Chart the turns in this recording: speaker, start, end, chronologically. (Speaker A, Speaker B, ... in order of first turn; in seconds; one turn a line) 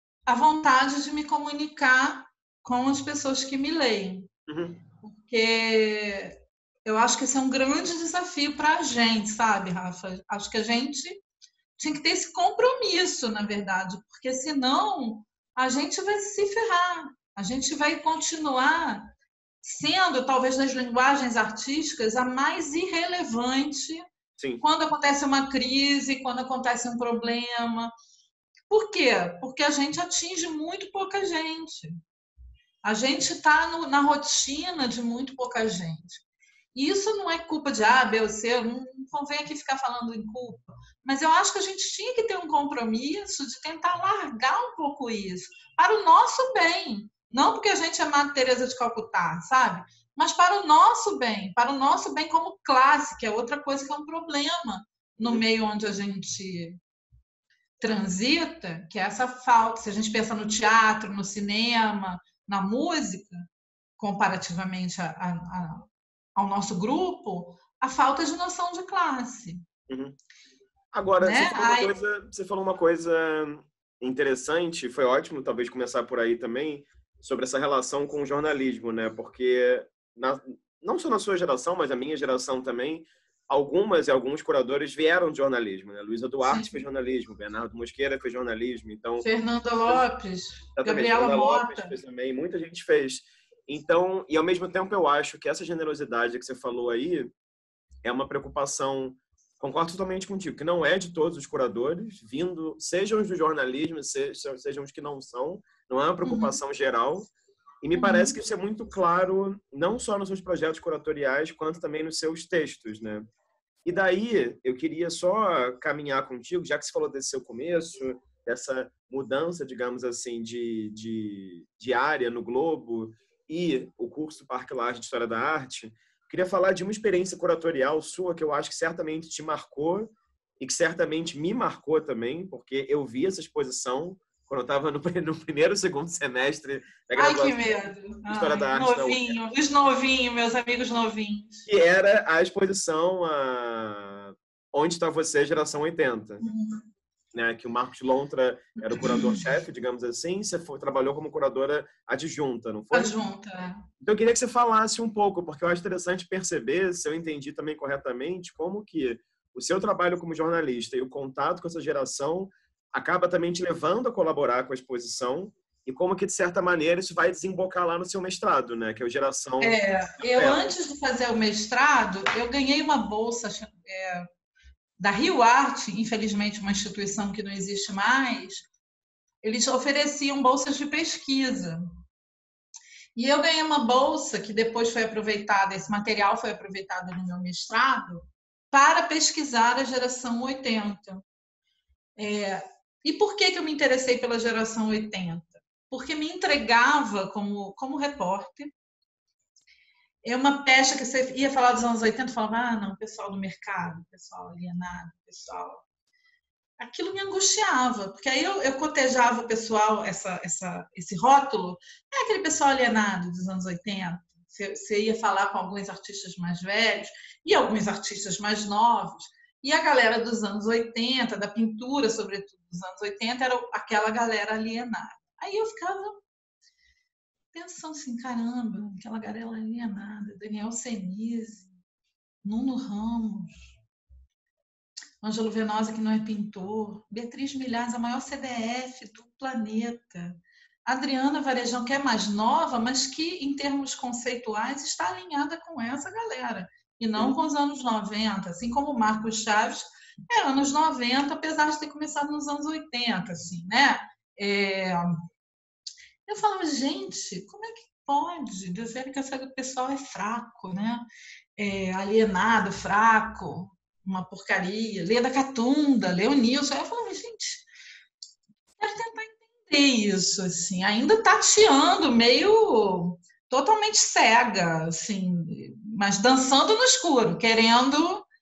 Speaker A: 0.3-4.3
Speaker B: 4.5-4.8
Speaker A: 5.0-11.2
Speaker A: 11.8-19.1
Speaker A: 19.6-24.0
Speaker B: 24.4-24.6
Speaker A: 24.6-27.9
Speaker A: 28.7-32.0
Speaker A: 32.8-36.2
Speaker A: 36.8-56.8
Speaker A: 57.8-63.5
Speaker A: 64.0-69.7
Speaker B: 69.9-70.2
Speaker B: 70.9-89.2
Speaker A: 71.2-71.9
Speaker A: 86.4-86.8
Speaker A: 89.2-91.9
Speaker B: 90.8-97.3
Speaker B: 98.0-107.3
Speaker A: 106.2-106.6
Speaker B: 107.8-113.2
Speaker A: 108.0-108.3
Speaker B: 113.8-137.7
Speaker A: 137.2-141.7
Speaker B: 138.3-139.4
Speaker B: 141.7-146.4
Speaker A: 146.4-146.8
Speaker B: 147.3-153.1
Speaker A: 148.8-149.5
Speaker A: 152.9-153.9
Speaker B: 154.0-169.8
Speaker A: 169.6-174.3
Speaker B: 170.3-170.7
Speaker A: 175.0-178.7
Speaker A: 179.4-181.8
Speaker A: 183.2-191.2
Speaker A: 192.2-198.7
Speaker A: 200.2-205.8
Speaker A: 206.8-226.2
Speaker A: 227.5-231.7
Speaker A: 232.4-233.7
Speaker A: 235.2-255.2
Speaker A: 256.3-261.1
Speaker A: 261.6-267.6
Speaker A: 268.8-278.3